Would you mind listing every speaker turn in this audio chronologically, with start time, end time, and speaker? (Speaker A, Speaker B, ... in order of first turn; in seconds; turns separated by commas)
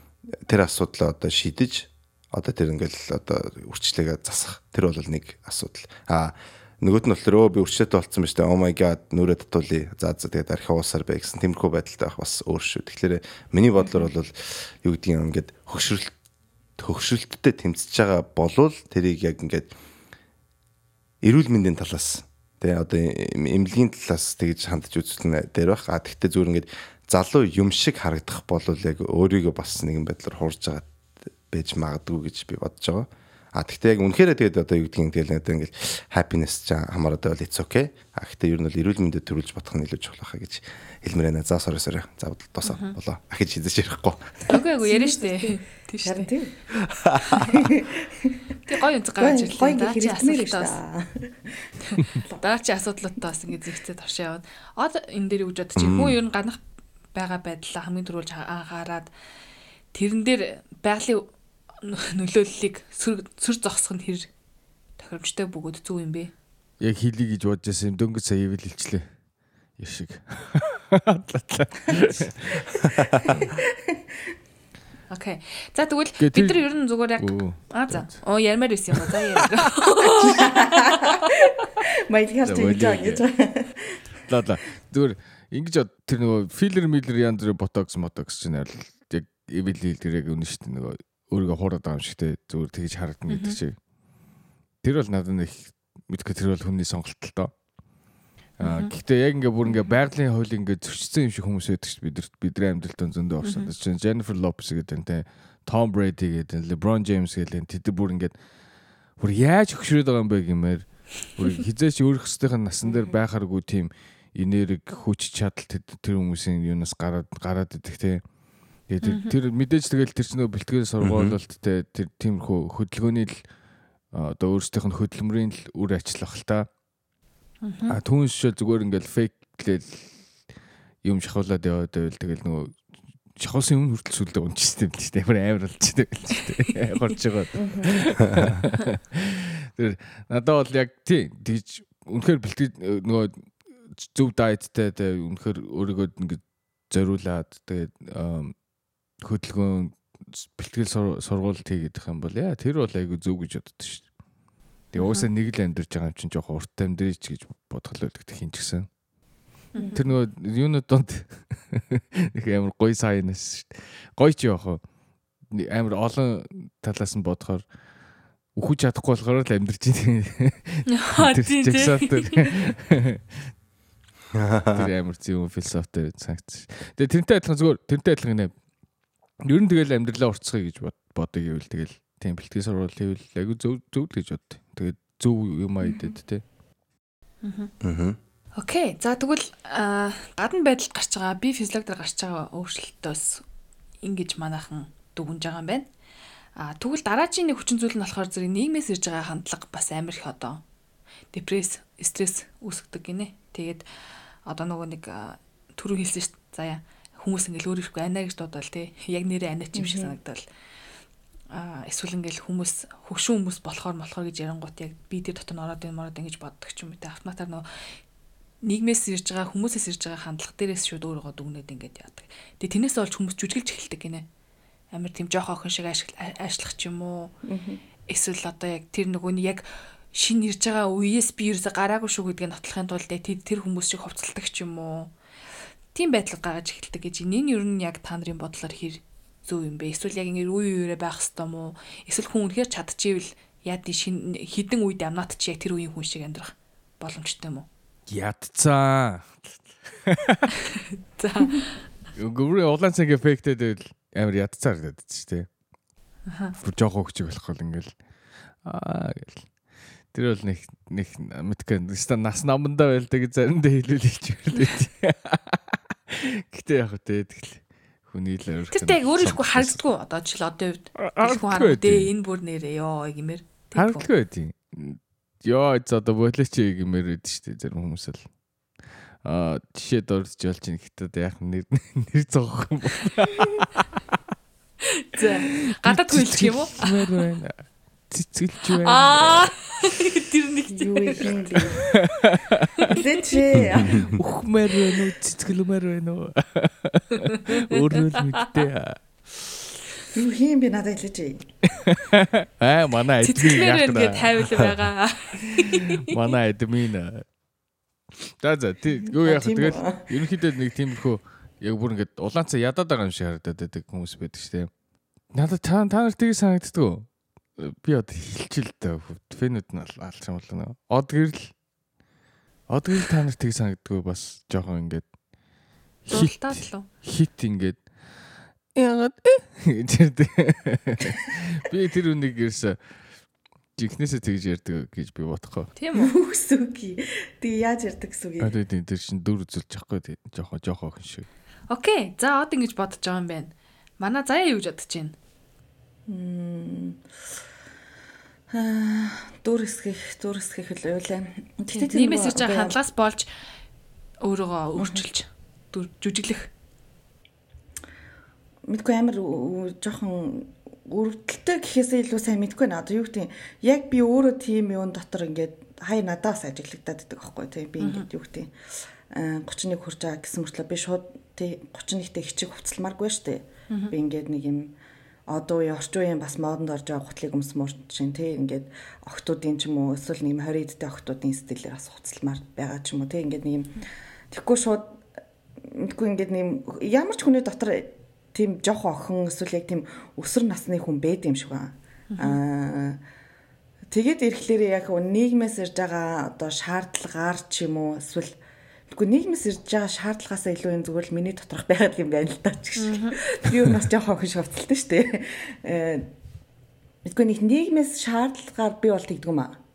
Speaker A: 0.4-16.1, Speaker A: 16.8-19.7, Speaker A: 21.2-30.9, Speaker A: 31.5-44.4, Speaker B: 42.6-42.9, Speaker B: 44.5-46.3, Speaker C: 44.5-46.6, Speaker A: 46.8-47.7, Speaker C: 47.3-48.6, Speaker B: 48.7-50.7, Speaker C: 49.2-51.5, Speaker B: 51.9-56.6, Speaker C: 52.1-52.4, Speaker A: 55.8-56.2, Speaker B: 57.1-59.1, Speaker B: 59.9-61.3, Speaker B: 61.8-64.3, Speaker B: 65.0-66.3, Speaker D: 66.8-69.1, Speaker D: 69.8-73.5, Speaker C: 73.2-74.0, Speaker B: 75.1-81.3, Speaker D: 76.2-76.6, Speaker D: 77.2-78.2, Speaker D: 78.9-79.4, Speaker C: 80.1-84.0, Speaker D: 82.4-83.2, Speaker D: 84.3-93.8, Speaker B: 93.3-93.6, Speaker D: 94.8-97.5, Speaker D: 98.6-108.3, Speaker B: 98.6-98.9, Speaker B: 103.4-103.7, Speaker D: 109.2-118.2, Speaker D: 118.9-123.4, Speaker B: 119.0-119.3, Speaker A: 121.0-121.4, Speaker D: 124.1-126.7, Speaker B: 127.6-128.0, Speaker D: 127.9-130.1, Speaker D: 131.0-132.8, Speaker D: 133.3-148.5, Speaker C: 137.6-138.0, Speaker D: 149.2-154.1, Speaker D: 154.9-158.9, Speaker B: 155.0-155.3, Speaker B: 159.7-160.0, Speaker C: 159.8-160.1, Speaker D: 159.9-164.8, Speaker D: 165.5-167.6, Speaker D: 168.5-173.2, Speaker B: 170.9-172.5, Speaker A: 174.3-174.9, Speaker D: 174.7-178.5, Speaker D: 179.4-186.4, Speaker C: 185.8-186.2, Speaker B: 187.4-187.7, Speaker A: 187.8-188.2, Speaker B: 188.6-193.4, Speaker B: 194.0-195.8, Speaker B: 196.6-200.6, Speaker B: 201.3-203.8, Speaker B: 204.4-210.4, Speaker C: 209.7-210.2, Speaker B: 211.5-217.7, Speaker B: 218.6-224.2, Speaker B: 224.9-227.3, Speaker C: 227.4-227.8, Speaker B: 228.1-235.1, Speaker B: 235.9-247.7, Speaker D: 248.1-250.5, Speaker B: 250.7-251.7, Speaker D: 252.1-255.5, Speaker B: 256.3-256.6, Speaker D: 256.6-257.9, Speaker D: 258.6-259.4, Speaker D: 260.1-269.8, Speaker B: 268.7-274.1, Speaker D: 271.0-272.1, Speaker D: 273.8-278.2, Speaker D: 279.2-283.8, Speaker B: 284.9-287.1, Speaker D: 285.8-289.7, Speaker B: 288.8-291.9, Speaker C: 290.7-291.8, Speaker D: 292.0-292.9, Speaker B: 292.9-293.4, Speaker C: 292.9-294.1, Speaker D: 293.5-299.6, Speaker A: 293.7-294.2, Speaker B: 297.3-298.4, Speaker C: 300.1-301.5, Speaker D: 301.7-304.7, Speaker B: 303.2-306.3, Speaker D: 305.5-307.3, Speaker D: 308.3-314.7, Speaker C: 309.1-310.0, Speaker D: 315.3-321.5, Speaker D: 322.7-325.1, Speaker D: 326.0-327.9, Speaker B: 326.1-326.9, Speaker D: 328.7-332.8, Speaker D: 333.8-335.7, Speaker B: 335.8-336.1, Speaker C: 335.9-338.6, Speaker D: 338.4-341.3, Speaker B: 341.7-345.1, Speaker C: 346.1-347.0, Speaker C: 348.5-352.8, Speaker B: 351.7-353.3, Speaker B: 354.2-356.5, Speaker C: 354.8-355.0, Speaker C: 358.7-368.5, Speaker B: 367.8-368.1, Speaker C: 369.1-374.7, Speaker B: 373.7-373.9, Speaker C: 375.3-385.0, Speaker C: 385.6-393.0, Speaker B: 392.1-392.4, Speaker C: 393.9-398.4, Speaker C: 398.9-406.1, Speaker B: 402.8-403.2, Speaker C: 407.1-409.6